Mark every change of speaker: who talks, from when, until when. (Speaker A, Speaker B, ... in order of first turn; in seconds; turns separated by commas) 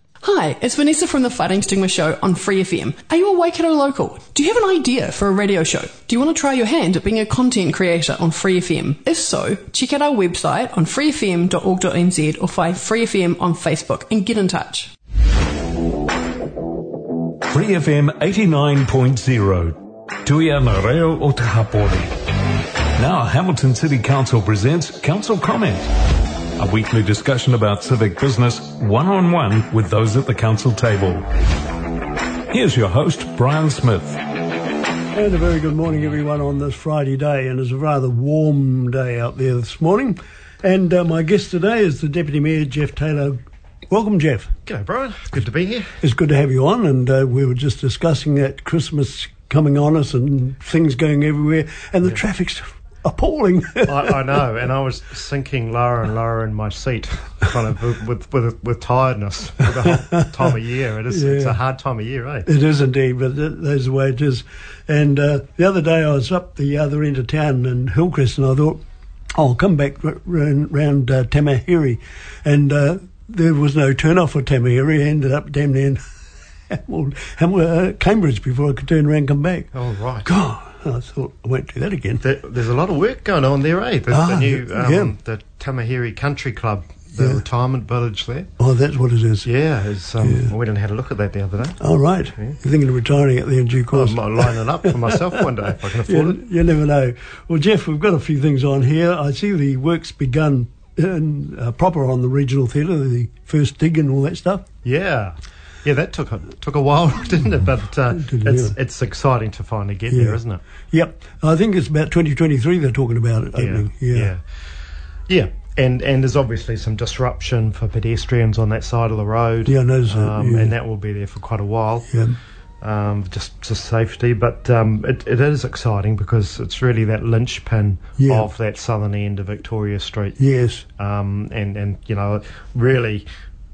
Speaker A: 0.2-14.9, Speaker B: 17.5-22.1, Speaker B: 23.0-25.9, Speaker B: 26.6-31.3, Speaker B: 32.5-34.2, Speaker C: 35.1-43.4, Speaker C: 43.9-44.5, Speaker D: 44.7-45.9, Speaker C: 46.0-54.4, Speaker D: 53.9-62.5, Speaker C: 59.8-60.5, Speaker C: 61.1-61.6, Speaker C: 62.5-68.8, Speaker C: 69.3-76.0, Speaker C: 76.7-79.7, Speaker D: 79.7-80.3, Speaker C: 80.2-82.2, Speaker D: 82.2-88.5, Speaker C: 84.1-85.1, Speaker C: 88.6-89.5, Speaker D: 89.4-91.8, Speaker C: 90.2-90.5, Speaker C: 91.8-95.5, Speaker D: 93.9-96.4, Speaker C: 96.0-104.7, Speaker D: 104.8-110.6, Speaker C: 108.1-108.7, Speaker C: 110.1-110.4, Speaker C: 110.9-114.3, Speaker D: 113.6-114.4, Speaker D: 115.3-122.1, Speaker C: 119.7-120.7, Speaker C: 122.1-122.4, Speaker D: 122.8-130.4, Speaker C: 128.2-128.5, Speaker C: 130.4-130.8, Speaker D: 131.0-133.2